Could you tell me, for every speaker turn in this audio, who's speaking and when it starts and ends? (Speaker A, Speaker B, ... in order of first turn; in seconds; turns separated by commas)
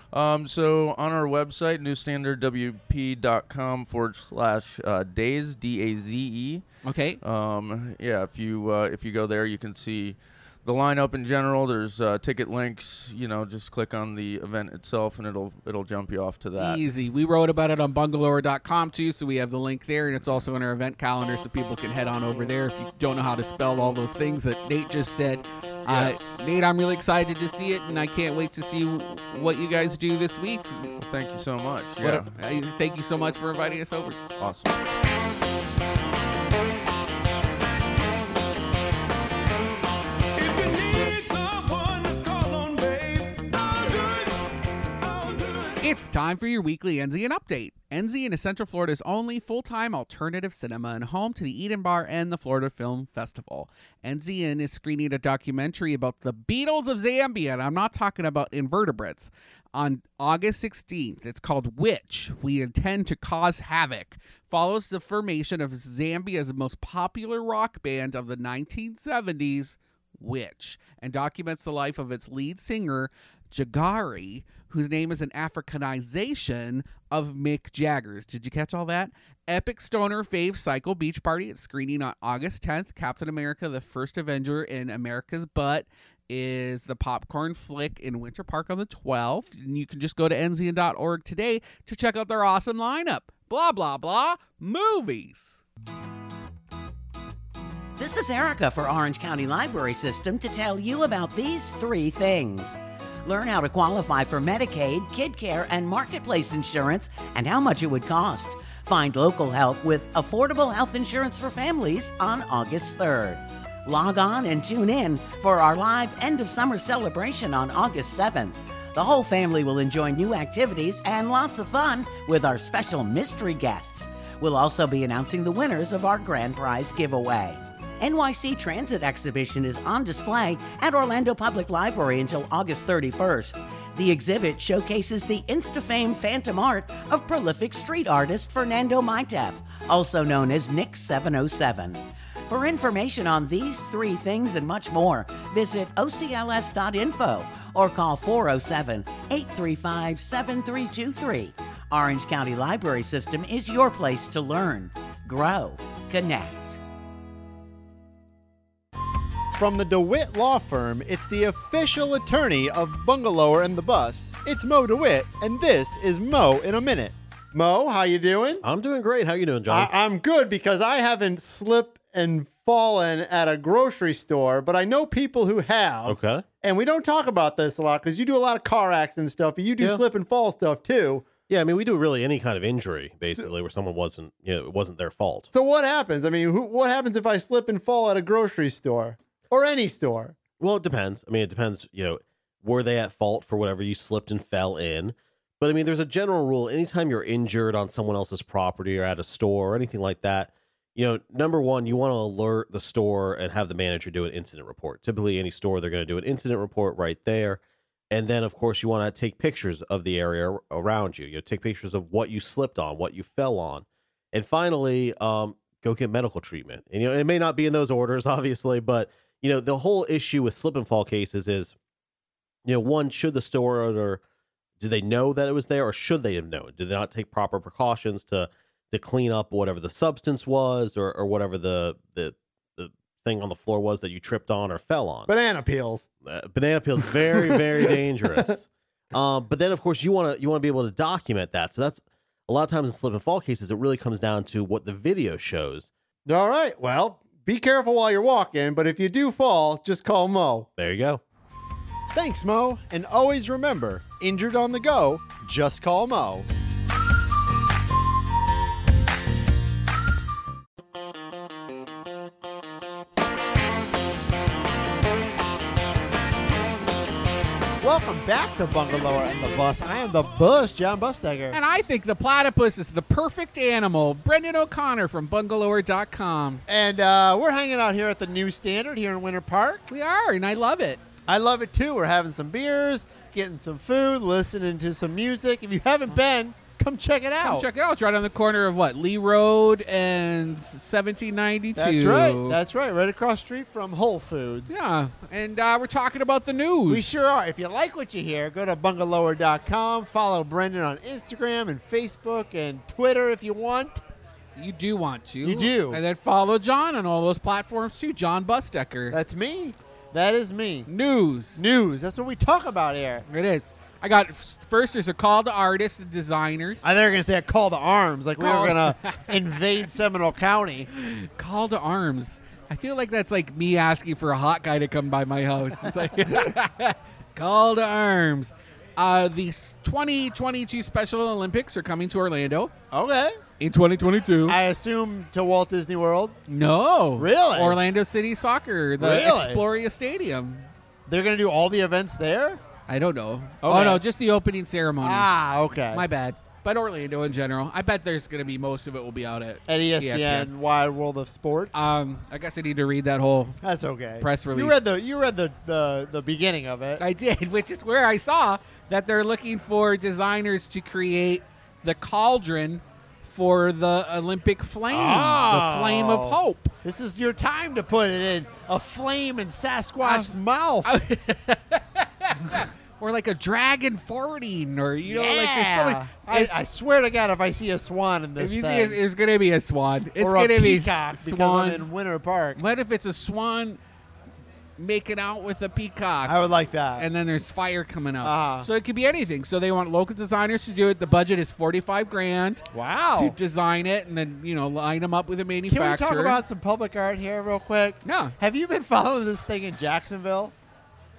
Speaker A: 0.1-6.6, Speaker B: 6.8-7.2, Speaker A: 7.2-16.8, Speaker B: 16.6-30.9, Speaker A: 25.9-26.2, Speaker A: 31.0-32.4, Speaker B: 32.0-34.2, Speaker A: 34.4-34.8, Speaker C: 40.4-45.8, Speaker B: 45.8-95.6, Speaker D: 98.0-156.8, Speaker E: 159.6-168.7, Speaker F: 168.6-169.9, Speaker E: 169.7-181.3, Speaker F: 176.1-176.5, Speaker F: 181.5-185.5, Speaker E: 185.5-190.4, Speaker F: 190.6-221.8, Speaker F: 222.7-224.2, Speaker F: 224.8-235.3, Speaker E: 235.3-236.1, Speaker F: 236.2-245.9, Speaker E: 237.0-238.5, Speaker E: 246.3-250.7, Speaker F: 250.8-251.2, Speaker E: 252.1-256.5, Speaker E: 267.8-271.6, Speaker B: 271.5-276.6, Speaker E: 276.7-279.9, Speaker B: 279.9-281.0, Speaker E: 281.3-287.7, Speaker B: 287.4-292.6, Speaker E: 291.8-294.8, Speaker B: 294.7-297.2, Speaker E: 296.9-304.0, Speaker B: 304.6-309.2, Speaker E: 305.4-306.0, Speaker E: 309.1-310.9, Speaker B: 310.9-311.7, Speaker E: 311.6-313.2, Speaker B: 313.3-316.9, Speaker E: 316.8-320.9, Speaker B: 318.4-319.3, Speaker B: 320.9-332.7, Speaker E: 332.9-333.4, Speaker B: 333.6-334.6, Speaker E: 334.5-336.4, Speaker B: 336.5-340.7, Speaker E: 337.2-337.8, Speaker E: 339.0-339.6, Speaker E: 341.1-342.6, Speaker B: 342.9-345.4, Speaker E: 343.6-344.0, Speaker E: 345.0-346.1, Speaker B: 345.9-350.5, Speaker E: 349.7-351.9, Speaker B: 351.7-353.6, Speaker E: 353.6-357.0, Speaker B: 354.2-354.8, Speaker B: 357.0-366.7, Speaker E: 364.9-370.9, Speaker B: 370.0-370.3, Speaker B: 370.9-376.6, Speaker E: 375.0-379.0, Speaker B: 378.4-381.9, Speaker E: 380.2-382.6, Speaker B: 382.6-383.8, Speaker B: 384.8-386.4, Speaker E: 386.2-387.1, Speaker B: 387.0-396.4, Speaker E: 388.2-388.7, Speaker E: 392.7-393.4, Speaker E: 395.7-400.5, Speaker B: 398.1-398.4